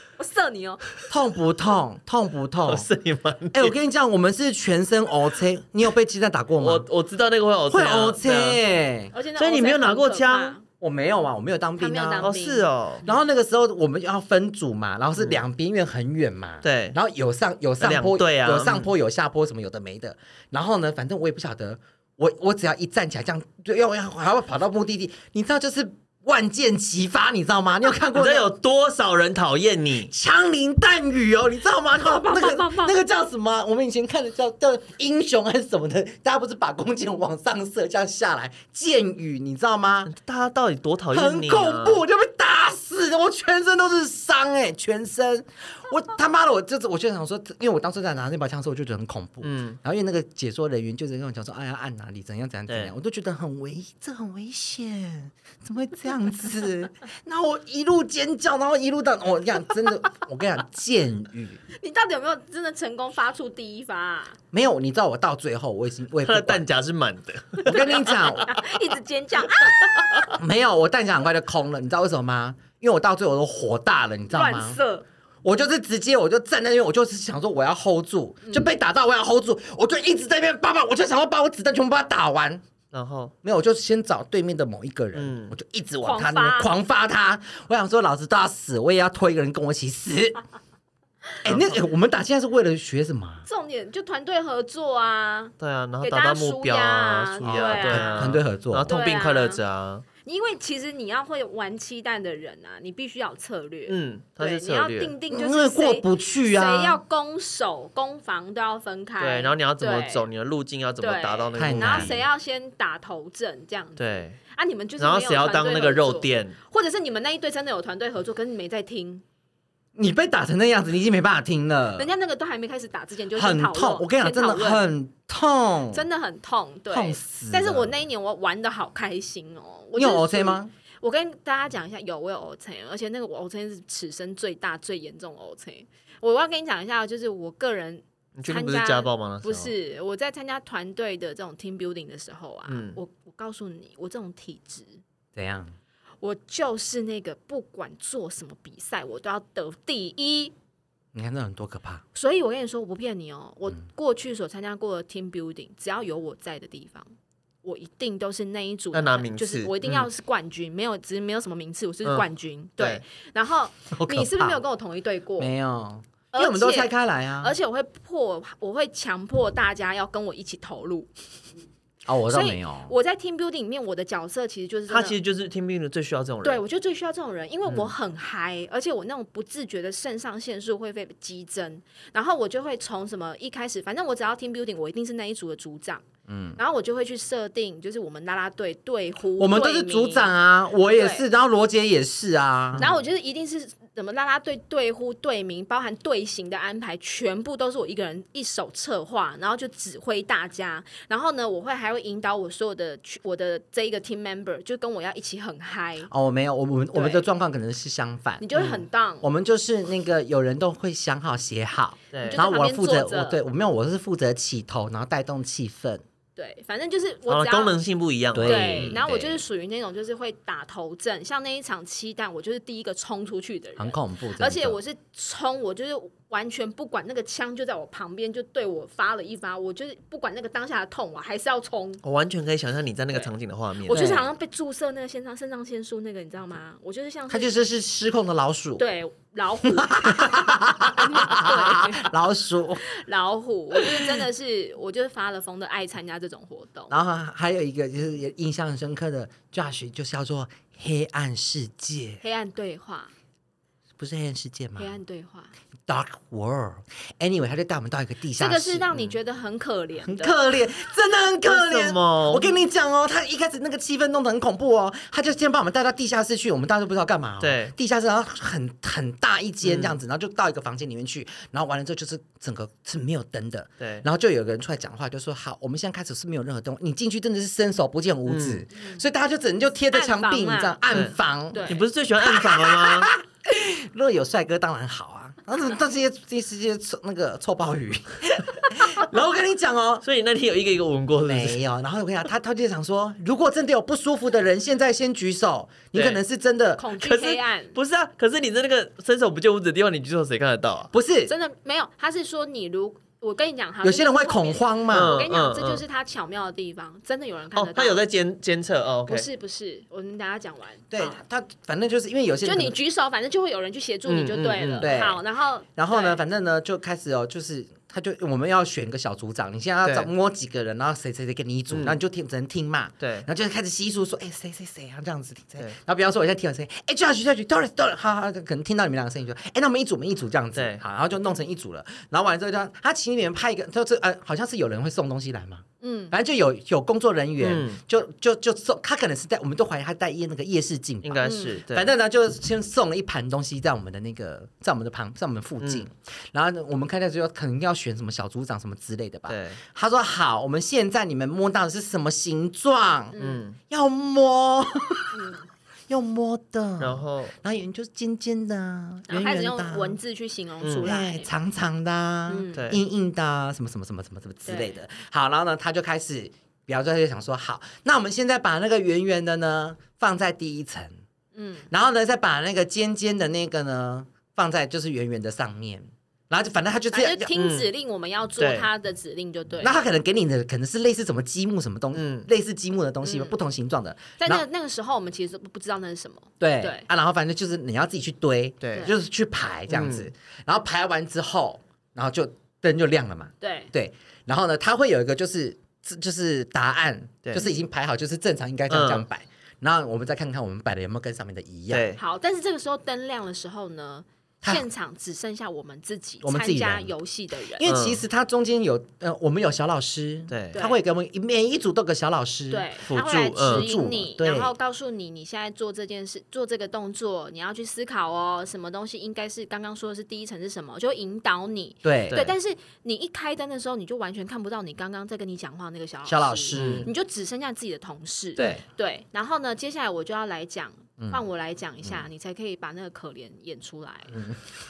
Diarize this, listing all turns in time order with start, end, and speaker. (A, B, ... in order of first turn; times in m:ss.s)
0:00.2-0:00.8 A
0:01.1-0:02.9 B
0:02.6-0:03.7 C
0:03.5-0:06.8 B
0:06.6-0:08.6 C
0:07.7-0:09.1 B
0:09.1-0:10.6 A
0:09.4-0:10.6 C
0:10.8-0:12.3 B
0:11.8-0:13.1 A
0:12.2-0:13.0 C
0:13.0-0:28.5 B
0:16.6-0:17.0 C
0:17.8-0:18.9 C
0:28.1-0:30.1 C
0:30.1-0:40.1 B
0:32.0-0:33.0 A
0:40.1-0:42.0 C
0:41.1-1:01.6 B
0:49.4-0:49.8 C
0:52.7-0:52.9 C
1:01.7-1:04.4 A
1:04.5-1:06.6 B
1:06.2-1:08.2 C
1:07.6-1:08.6 B
1:07.7-1:10.3 A
1:10.3-1:14.8 B
1:14.3-1:15.0 A
1:15.4-1:22.6 B
1:18.4-1:18.7 A
1:22.9-1:23.3 C
1:23.4-1:30.4 B
1:25.1-1:25.5 C
1:26.0-1:26.7 A
1:31.4-1:33.4 B
1:31.4-1:31.8 C
1:33.4-1:38.3 A
1:35.6-1:40.0 C
1:37.4-1:38.9 B
1:38.9-1:39.6 A
1:40.2-1:50.2 A
1:43.9-1:45.1 C
1:45.3-1:47.0 B
1:49.2-1:52.2 C
1:51.0-1:59.2 A
1:51.5-1:52.2 B
1:54.0-1:54.4 C
1:55.0-1:56.6 C
2:00.0-2:02.1 B
2:02.0-2:04.8 A
2:03.3-2:06.0 B
2:05.9-2:25.0 A
2:06.9-2:07.9 B
2:10.0-2:10.7 B
2:18.4-2:19.7 C
2:22.7-2:23.0 C
2:25.3-2:25.7 B
2:26.2-2:30.5 A
2:31.1-2:32.0 B
2:32.1-2:37.1 A
2:37.6-2:45.5 A
2:38.9-2:40.1 C
2:43.9-2:44.6 B
2:45.4-2:47.5 B
2:46.3-2:51.1 A
2:52.0-2:52.9 B
2:52.3-2:55.2 A
2:54.9-2:56.6 C
2:56.4-3:06.0 A
2:57.7-2:57.9 C
3:06.3-3:06.6 B
3:06.6-3:10.3 A
3:09.4-3:12.9 B
3:10.8-3:11.2 A
3:12.8-3:26.1 A
3:26.1-3:28.6 B
3:26.9-3:27.2 A
3:28.4-3:29.3 A
3:29.2-3:36.0 B
3:32.1-3:32.4 C
3:32.2-3:33.4 A
3:36.4-3:37.8 A
3:37.3-3:39.4 C
3:38.3-3:39.2 B
3:38.4-3:52.0 A
3:43.8-3:44.8 B
3:52.0-3:54.2 C
3:53.8-3:57.5 A
3:53.9-3:54.2 B
3:57.3-3:58.8 B
3:58.8-4:02.1 A
3:59.6-4:02.8 B
4:02.8-4:07.0 A
4:03.8-4:04.1 B
4:06.9-4:12.2 B
4:12.2-4:13.1 A
4:14.0-4:15.0 B
4:14.8-4:15.5 A
4:15.9-4:18.9 B
4:18.4-4:20.4 A
4:20.0-4:50.0 B
4:21.4-4:22.5 C
4:27.4-4:27.7 C
4:29.6-4:29.9 C
4:33.8-4:34.0 C
4:38.3-4:38.6 C
4:39.9-4:41.0 A
4:40.9-4:41.1 C
4:41.5-4:41.8 A
4:41.7-4:43.1 C
4:50.0-4:51.6 C
4:51.2-4:56.8 B
4:55.9-4:56.2 C
4:56.8-4:57.7 A
4:57.0-5:00.9 C
5:00.9-5:01.3 B
5:01.3-5:08.0 A
5:03.8-5:05.2 B
5:04.9-5:05.8 C
5:07.5-5:09.2 C
5:09.1-5:11.2 A
5:10.9-5:12.8 B
5:12.4-5:16.2 A
5:14.1-5:14.9 C
5:14.8-5:15.2 B
5:15.8-5:55.2 B
5:19.8-5:20.1 C
5:21.7-5:22.0 C
5:23.0-5:23.3 C
5:30.5-5:30.8 C
5:35.8-5:36.1 A
5:37.4-5:37.8 C
5:41.0-5:41.9 C
5:41.2-5:41.6 A
5:49.3-5:49.6 C
5:53.1-5:53.4 A
5:53.2-5:53.6 C
5:55.1-5:55.4 A
5:55.9-6:00.0 B
5:56.8-5:57.3 C
5:59.1-6:01.3 A
6:00.6-6:00.9 C
6:00.8-6:11.0 B
6:02.3-6:02.6 A
6:02.5-6:02.8 C
6:04.4-6:04.8 A
6:11.3-6:11.7 A
6:11.7-6:17.3 B
6:16.9-6:19.8 A
6:17.3-6:17.7 C
6:18.4-6:18.7 C
6:19.6-6:24.4 B
6:21.9-6:22.3 C
6:23.0-6:23.4 A
6:24.2-6:26.9 A
6:26.4-6:41.9 B
6:28.6-6:28.9 C
6:29.7-6:30.1 C
6:33.4-6:33.7 A
6:38.7-6:39.0 C
6:41.7-6:42.0 C
6:42.0-6:47.6 A
6:46.2-6:46.9 B
6:47.6-6:52.7 B
6:47.6-6:48.0 C
6:50.3-6:50.6 C
6:50.5-6:50.8 A
6:52.5-7:14.2 A
6:52.8-6:53.7 C
6:53.4-6:54.5 B
7:01.8-7:02.2 B
7:06.0-7:06.9 B
7:06.5-7:06.9 C
7:08.4-7:08.6 B
7:14.1-7:14.4 B